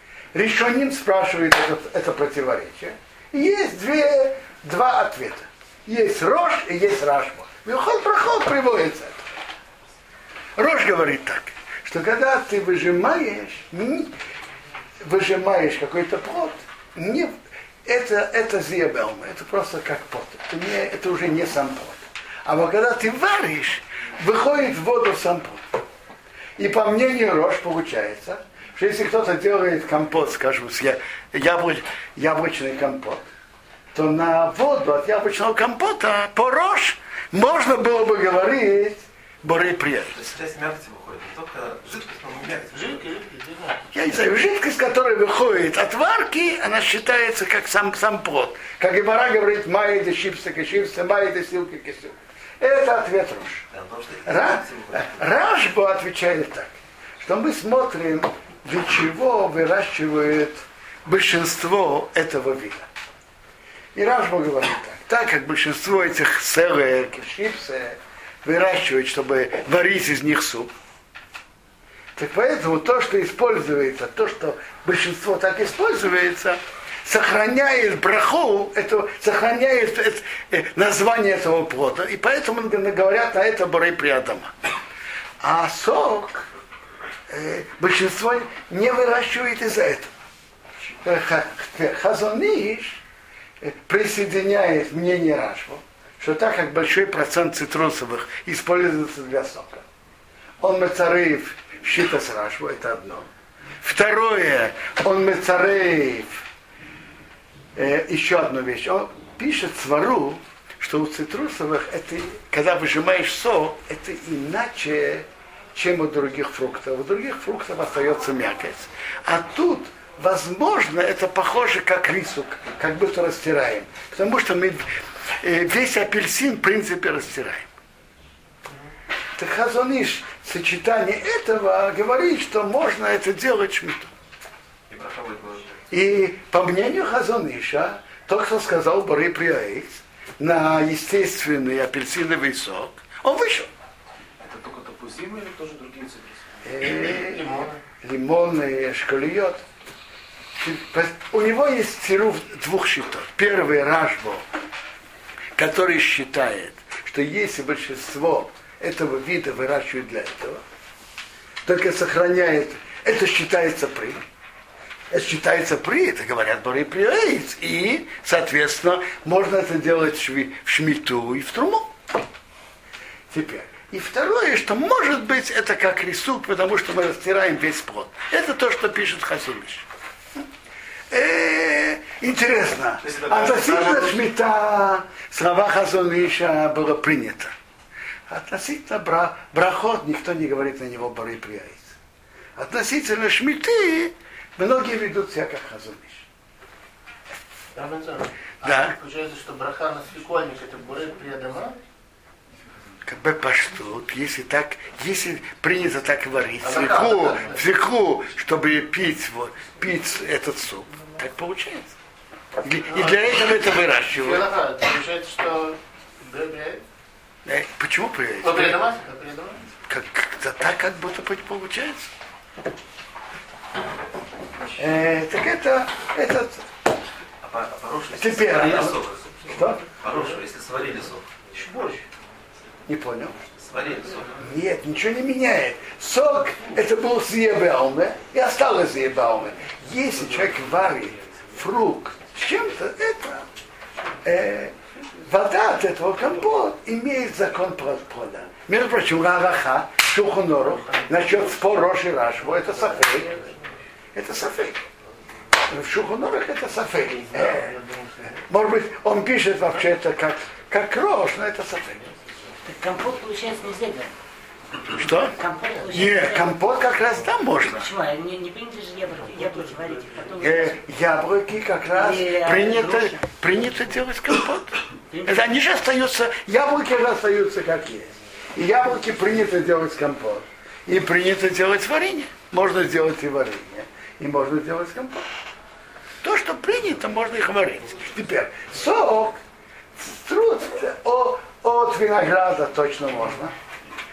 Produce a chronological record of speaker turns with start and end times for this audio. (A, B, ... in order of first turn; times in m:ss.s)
0:00.3-0:09.2 A
0:10.6-0:14.1 A
0:15.0-0:17.3 A
0:17.8-0:25.6 A
0:26.6-0:33.2 A
0:33.9-0:40.2 A
0:40.1-0:43.0 B
0:42.7-0:43.8 C
0:43.9-0:53.6 A
0:53.7-0:55.3 B
0:54.3-1:02.9 A
1:04.0-1:10.7 A
1:12.2-1:24.5 A
1:25.4-1:26.5 A
1:27.3-1:30.1 A
1:31.0-1:33.0 A
1:33.6-1:39.8 A
1:40.6-1:43.3 A
1:43.8-1:46.4 A
1:47.8-2:07.7 A
2:09.4-2:14.1 A
2:14.9-2:15.8 B
2:15.9-2:23.7 A
2:24.4-2:26.6 D
2:26.6-2:29.6 A
2:27.1-2:27.8 C
2:30.6-2:34.4 A
2:35.6-2:40.6 A
2:41.6-2:44.2 A
2:45.1-2:52.0 A
2:53.3-2:59.9 A
3:01.1-3:07.5 A
3:03.0-3:04.2 D
3:08.3-3:12.0 A
3:12.6-3:16.3 A
3:17.8-3:21.8 C
3:18.6-3:19.0 A
3:23.0-3:31.9 A
3:26.6-3:27.6 C
3:32.6-3:34.5 A
3:32.9-3:33.4 C
3:34.0-3:36.8 C
3:37.5-3:38.8 A
3:38.4-3:39.6 C
3:39.9-3:42.1 A
3:44.8-3:46.6 A
3:47.4-3:51.4 B
3:48.2-3:49.8 A
3:51.5-3:52.0 A
3:52.9-3:53.4 A
3:53.5-3:54.4 B
3:54.4-4:03.5 A
4:04.2-4:13.3 A
4:13.0-4:13.5 C
4:14.1-4:14.8 A
4:15.6-4:17.8 A
4:17.1-4:18.4 C
4:18.5-4:22.1 A
4:22.6-4:24.1 E
4:24.9-4:25.4 A
4:25.2-4:26.6 E
4:25.9-4:27.9 A
4:27.6-4:30.8 E
4:30.4-4:45.3 A
4:31.9-4:33.3 E
4:35.1-4:35.4 E
4:46.2-4:49.4 A
4:50.0-4:53.5 A